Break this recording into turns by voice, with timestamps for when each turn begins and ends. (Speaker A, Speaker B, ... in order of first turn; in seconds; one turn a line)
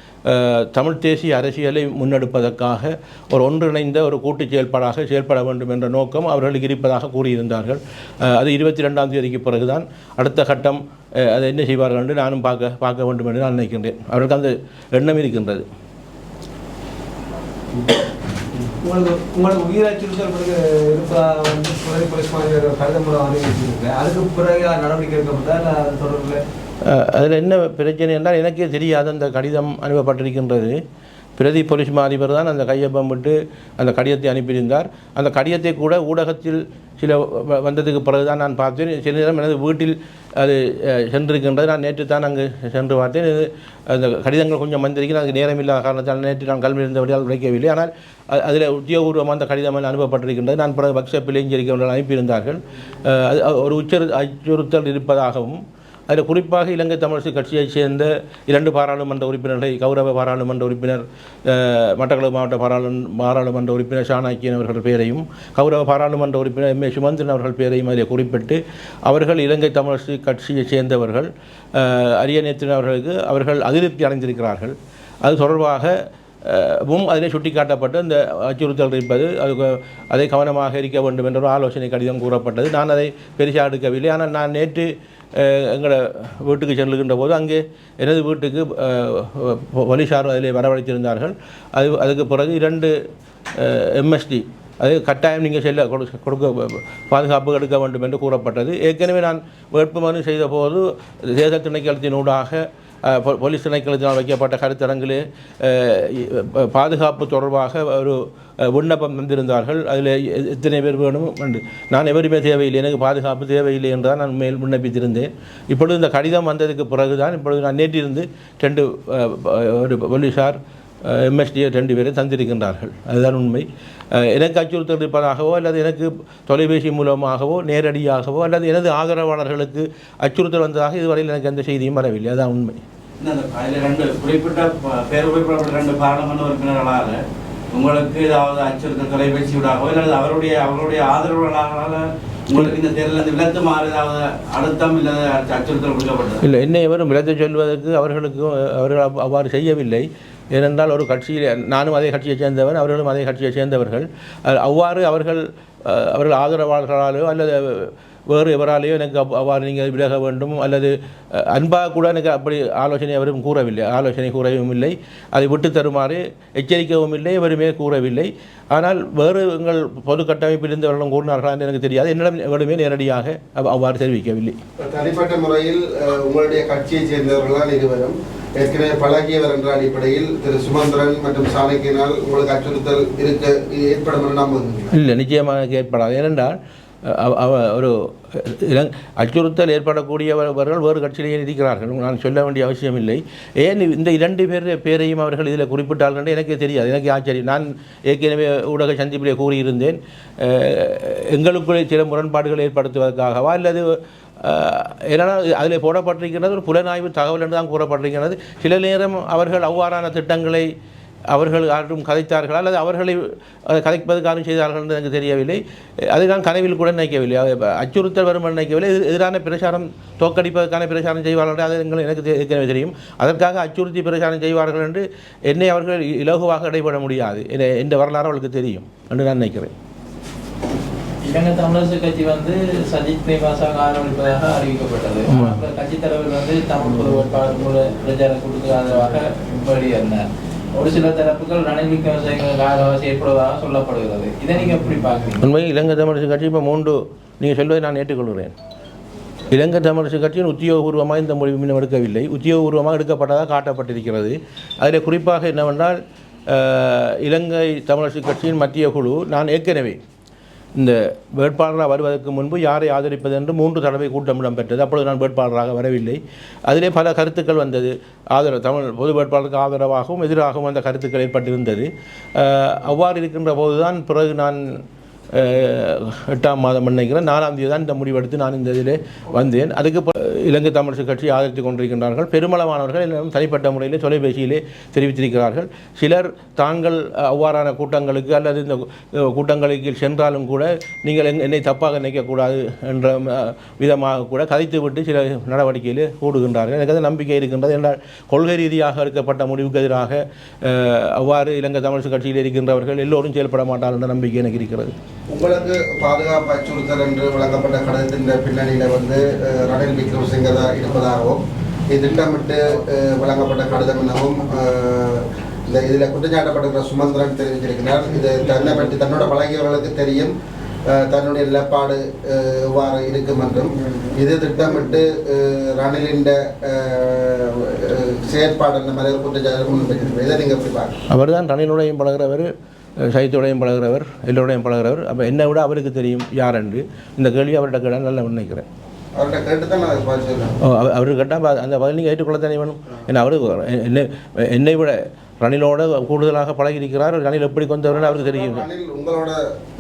Speaker A: 0.3-15.7
Speaker B: 18.8-26.4
Speaker A: 26.8-30.8
Speaker A: 31.4-92.9
Speaker A: 93.5-132.8
Speaker C: 133.2-146.4
Speaker A: 146.4-174.6
Speaker D: 174.8-184.9
Speaker A: 184.9-210.7
Speaker A: 211.3-229.7
Speaker E: 231.2-245.4
Speaker A: 235.3-235.6
Speaker A: 245.4-248.5
Speaker A: 249.5-260.0
Speaker A: 260.8-274.6
Speaker A: 275.3-304.9
Speaker D: 305.3-320.3
Speaker D: 320.9-331.0
Speaker A: 331.1-338.7
Speaker D: 339.2-340.6
Speaker A: 340.6-348.6
Speaker D: 348.0-349.4